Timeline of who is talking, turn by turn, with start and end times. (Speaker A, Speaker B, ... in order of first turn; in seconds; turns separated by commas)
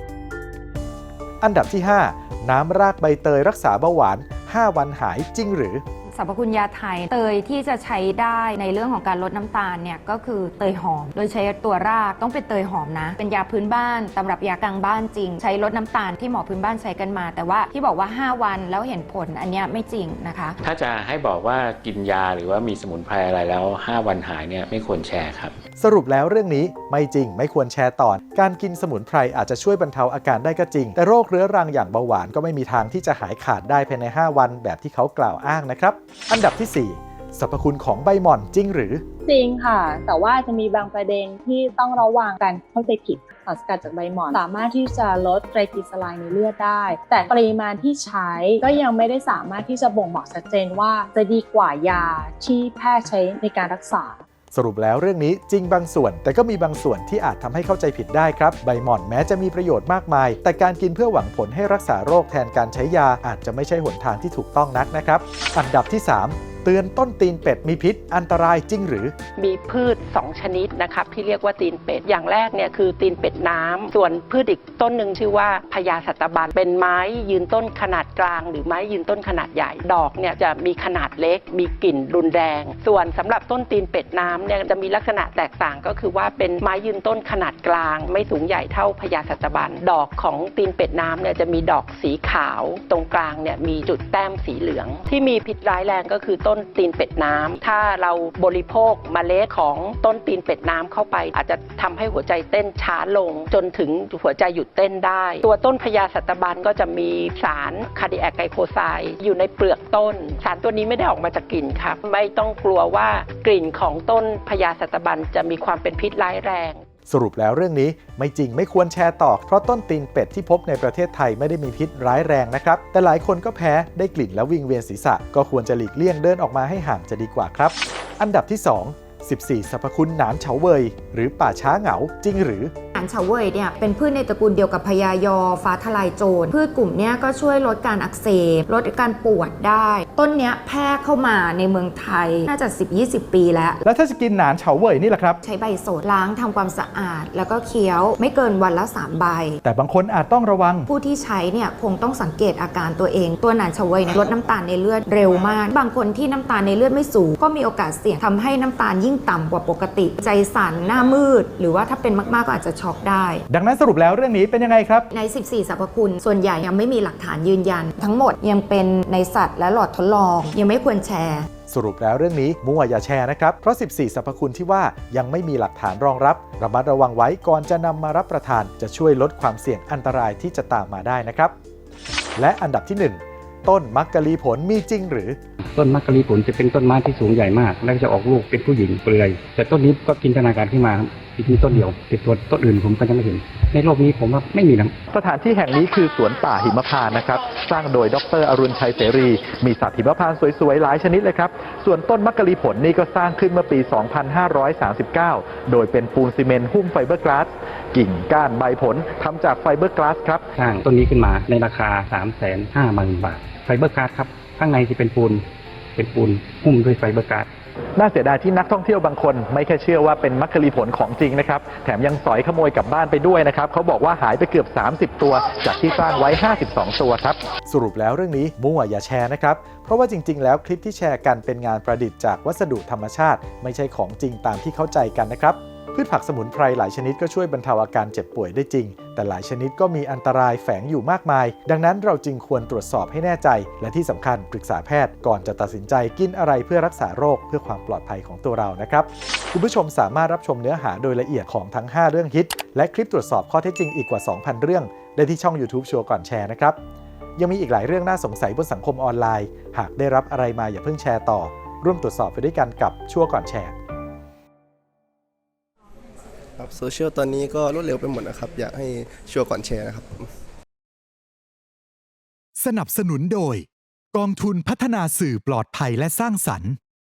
Speaker A: 1.4-5.8, Speaker B: 6.1-20.6, Speaker C: 20.6-25.6, Speaker A: 25.8-39.0, Speaker D: 39.3-54.2, Speaker A: 54.5-69.1, Speaker E: 69.4-116.8, Speaker A: 117.1-132.7, Speaker B: 132.9-143.8, Speaker A: 143.8-145.4, Speaker B: 145.4-149.6, Speaker A: 149.6-150.9, Speaker B: 150.9-163.4, Speaker A: 163.5-165.1, Speaker B: 165.1-171.5, Speaker A: 171.7-181.5, Speaker A: 182.3-185.4, Speaker F: 185.7-194.9, Speaker A: 195.1-210.4, Speaker F: 210.6-215.4, Speaker F: 215.9-217.5, Speaker A: 218.0-256.8, Speaker A: 257.4-263.7, Speaker G: 266.6-270.3, Speaker H: 272.6-276.8